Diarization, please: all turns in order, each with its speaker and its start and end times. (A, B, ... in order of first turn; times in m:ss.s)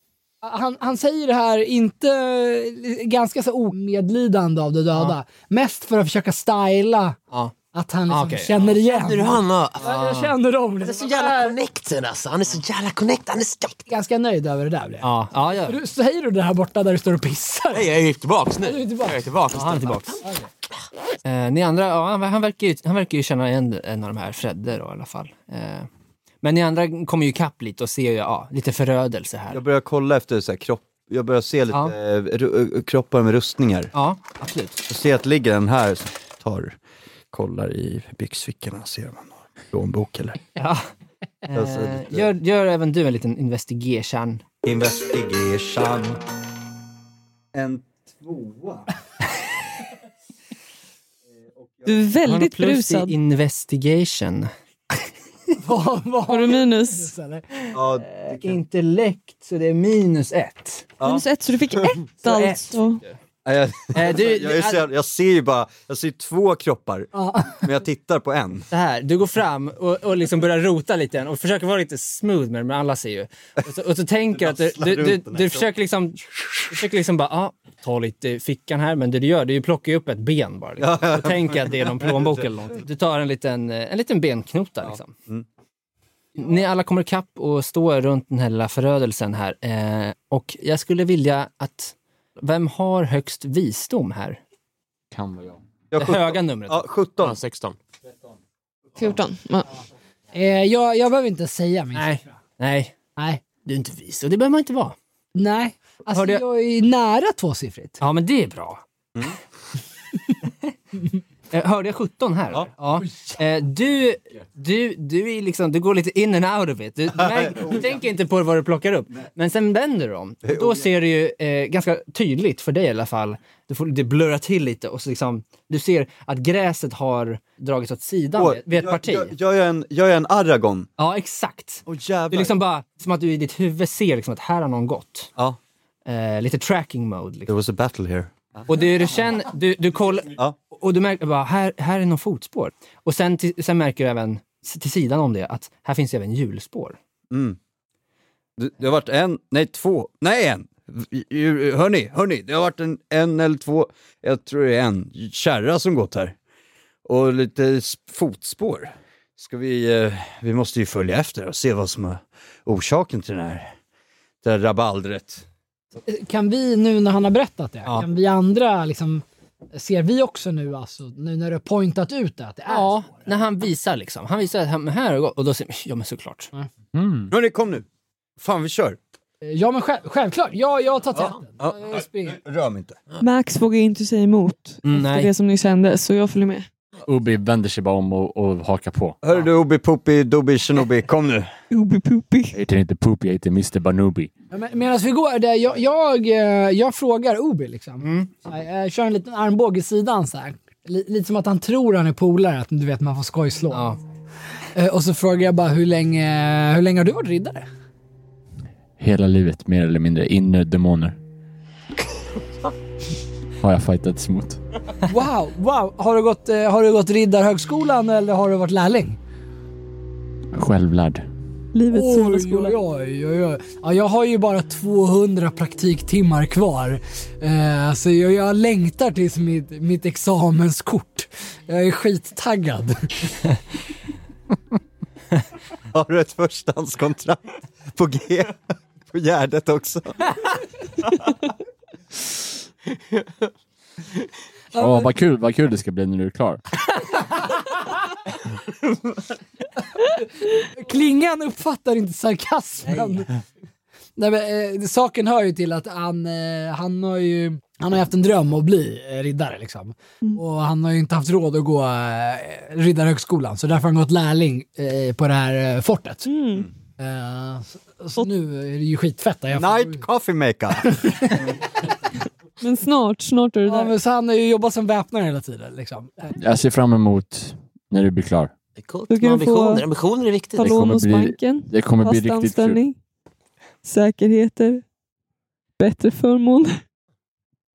0:00.4-0:07.2 A
0:07.7-0:11.6 A
0:08.1-0:08.6 B
0:08.6-0:09.9 C
0:09.8-0:10.4 B
0:10.8-0:13.9 C
0:13.9-0:17.9 A
0:15.0-0:15.8 B
0:17.7-0:20.3 C
0:18.6-0:19.2 A
0:19.5-0:20.2 B
0:21.2-0:25.9 B
0:26.4-0:29.6 B
0:29.5-0:33.9 D
0:33.9-0:34.8 B
0:34.9-0:36.8 D
0:37.3-0:40.4 D
0:40.6-0:40.9 B
0:41.4-0:44.4 B
0:41.5-0:42.3 D
0:44.6-0:46.2 D
0:47.5-0:48.9 D
0:51.6-0:52.0 D
0:51.9-0:53.2 E
0:52.2-0:54.5 B
0:55.6-0:57.7 A
0:56.3-0:57.1 E
0:57.7-0:58.6 D
0:58.0-1:00.9 B
1:01.0-1:01.9 D
1:01.0-1:03.0 E
1:02.2-1:03.2 B
1:03.4-1:08.7 D
1:03.9-1:04.9 B
1:07.1-1:07.6 A
1:08.7-1:25.1 B
1:14.3-1:15.7 D
1:20.8-1:22.4 D
1:24.8-1:25.5 D
1:26.4-1:34.4 B
1:35.1-1:35.6 F
1:35.9-1:37.4 D
1:36.0-1:36.8 B
1:37.2-1:37.8 C
1:39.0-1:39.7 E
1:40.3-1:42.2 A
1:41.9-1:43.0 B
1:43.2-1:43.4 A
1:43.6-1:45.0 B
1:45.4-1:48.0 A
1:46.1-1:46.4 B
1:48.0-1:48.8 B
1:51.5-2:09.3 B
1:57.1-1:58.0 D
2:00.4-2:00.9 D
2:08.4-2:10.9 D
2:11.0-2:15.3 B
2:11.9-2:12.6 D
2:16.1-2:17.5 B
2:17.5-2:18.7 D
2:18.7-2:27.0 B
2:27.3-2:27.6 D
2:28.6-2:36.4 D
2:37.0-2:43.7 D
2:44.4-2:45.4 D
2:46.1-2:53.3 A
2:52.7-2:56.5 B
2:56.9-2:57.3 F
2:57.3-2:57.8 D
2:58.4-2:59.0 D
2:59.4-3:02.4 A
3:01.2-3:03.0 D
3:03.2-3:06.7 E
3:04.8-3:05.3 B
3:07.0-3:09.2 F
3:09.2-3:11.5 D
3:11.7-3:12.6 E
3:12.5-3:14.3 F
3:14.5-3:24.0 A
3:18.0-3:18.3 B
3:23.7-3:24.0 B
3:24.8-3:27.7 A
3:29.0-3:31.2 F
3:33.6-3:34.6 F
3:35.0-3:39.2 A
3:40.5-3:41.2 F
3:41.7-3:42.8 E
3:41.9-3:53.0 A
3:55.9-3:57.4 D
3:57.9-3:58.6 D
3:59.1-4:00.4 D
4:04.7-4:05.1 A
4:04.8-4:06.6 F
4:10.8-4:13.4 A
4:14.2-4:26.3 A
4:26.3-4:26.7 E
4:27.0-4:30.0 A
4:29.5-4:31.0 D
4:30.8-4:31.6 A
4:32.6-4:33.9 E
4:33.7-4:36.4 A
4:36.3-4:38.5 F
4:38.8-4:40.7 C
4:39.1-4:39.8 E
4:40.6-4:42.8 F
4:40.6-4:43.0 E
4:43.8-4:44.8 E
4:45.8-4:46.8 E